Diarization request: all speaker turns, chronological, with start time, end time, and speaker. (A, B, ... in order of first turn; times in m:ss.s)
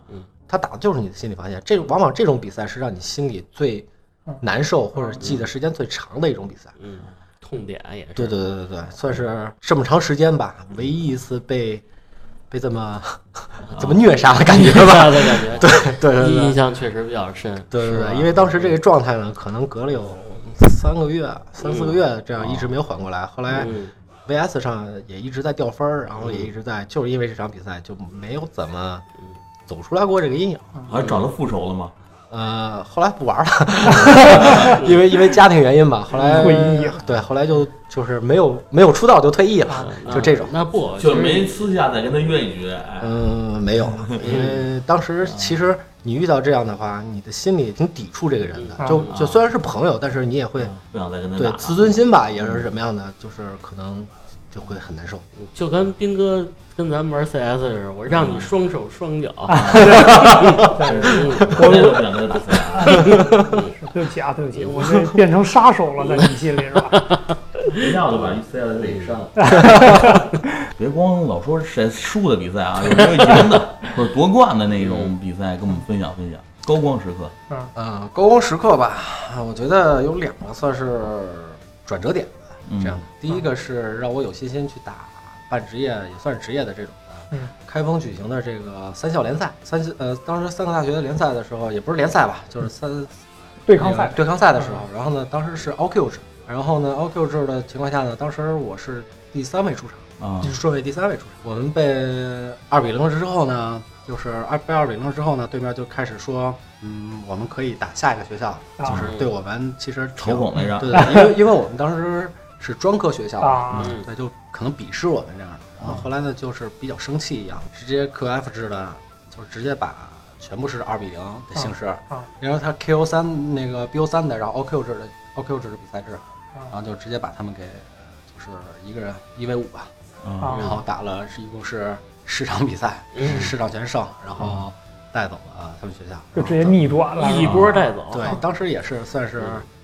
0:00.5-0:03.9 A
0:04.4-0:06.8 A
0:04.9-0:05.3 B
0:06.8-0:08.4 C
0:08.2-0:11.8 A
0:12.5-0:16.6 A
0:13.6-0:18.8 C
0:17.7-0:23.7 A
0:21.6-0:22.0 C
0:22.4-0:22.7 D
0:23.5-0:23.9 C
0:24.3-0:29.0 A
0:26.2-0:26.5 C
0:29.7-0:30.8 A
0:30.9-0:31.9 D
0:30.9-0:31.3 C
0:32.3-0:40.6 A
0:33.9-0:35.0 C
0:34.0-0:34.7 B
0:34.2-0:34.8 D
0:36.2-0:37.0 B
0:39.7-0:41.6 C
0:41.0-0:43.2 D
0:43.0-0:50.8 A
0:43.8-0:44.5 D
0:44.2-0:44.6 C
0:45.3-0:45.6 D
0:48.6-0:49.1 C
0:48.8-0:49.1 B
0:49.1-0:49.4 D
0:50.6-0:52.0 D
0:51.4-0:55.2 A
0:55.4-1:01.9 C
0:58.1-0:58.5 D
0:59.5-1:03.3 D
0:59.5-1:02.0 B
1:02.8-1:03.8 C
1:02.8-1:07.1 B
1:04.6-1:04.9 C
1:06.0-1:07.9 C
1:07.7-1:17.3 D
1:08.8-1:09.2 C
1:09.4-1:10.4 B
1:14.8-1:15.1 C
1:17.8-1:33.1 A
1:22.7-1:23.0 D
1:33.6-1:34.8 B
1:33.8-2:09.9 A
1:40.2-1:40.5 D
1:48.8-1:49.1 B
1:49.0-1:49.3 C
1:50.2-1:51.2 D
1:50.9-1:51.3 B
1:53.4-1:53.9 B
1:53.8-1:54.1 C
2:01.6-2:02.3 B
2:10.2-2:10.6 D
2:10.4-2:10.8 B
2:10.4-2:10.8 C
2:10.6-2:16.8 A
2:13.1-2:13.5 C
2:16.4-2:18.4 B
2:17.2-2:18.4 C
2:17.2-2:17.8 D
2:18.1-2:19.6 A